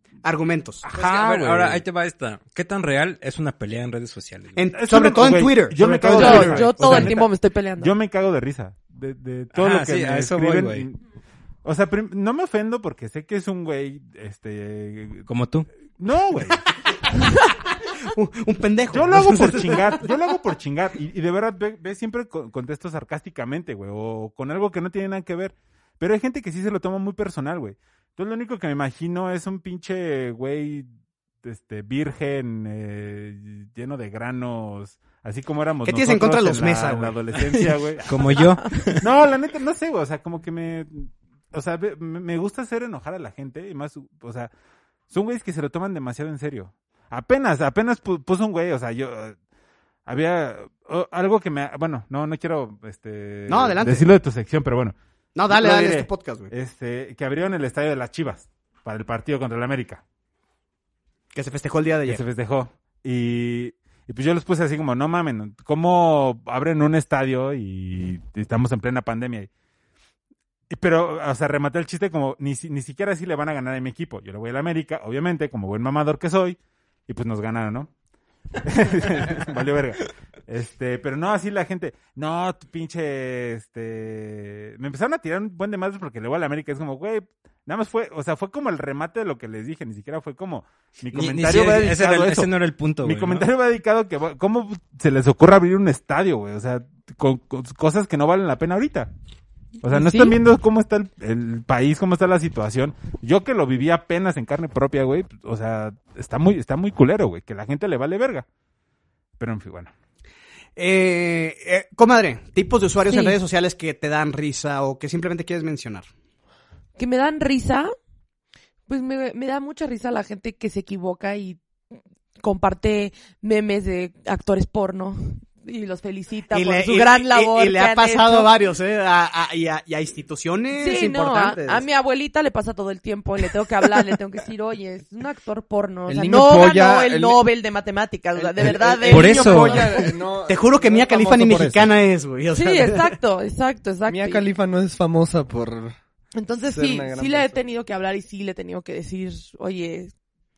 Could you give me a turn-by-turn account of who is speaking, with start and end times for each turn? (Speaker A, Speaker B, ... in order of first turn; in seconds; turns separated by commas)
Speaker A: 0.2-0.9, Speaker B: 0.8-1.8, Speaker C: 0.9-4.6, Speaker A: 4.6-7.1, Speaker B: 4.7-11.0, Speaker D: 6.1-7.9, Speaker C: 9.5-10.9, Speaker B: 11.6-15.3, Speaker C: 15.3-15.7, Speaker B: 16.0-16.6, Speaker A: 18.1-20.0, Speaker B: 18.9-30.9, Speaker B: 31.4-38.5, Speaker A: 35.9-37.7, Speaker C: 38.1-39.0, Speaker B: 39.0-44.5, Speaker B: 45.1-49.4, Speaker B: 50.1-55.0, Speaker A: 53.5-54.1, Speaker A: 55.4-56.5, Speaker B: 55.5-60.0, Speaker A: 61.3-62.2, Speaker B: 62.1-69.5, Speaker B: 70.7-77.9, Speaker B: 78.6-92.5, Speaker C: 91.1-93.5, Speaker B: 93.0-99.1, Speaker B: 99.8-108.5, Speaker D: 99.9-100.4, Speaker B: 109.4-109.9, Speaker A: 110.8-116.1, Speaker D: 113.1-113.4, Speaker D: 117.0-117.9, Speaker D: 118.9-121.6, Speaker D: 122.4-128.5, Speaker A: 126.5-131.8, Speaker D: 130.8-140.1, Speaker E: 136.1-137.4, Speaker E: 138.3-141.9, Speaker C: 139.1-139.9, Speaker A: 140.5-143.1, Speaker D: 142.5-144.5, Speaker E: 144.1-146.0, Speaker D: 146.3-150.1, Speaker E: 146.6-147.6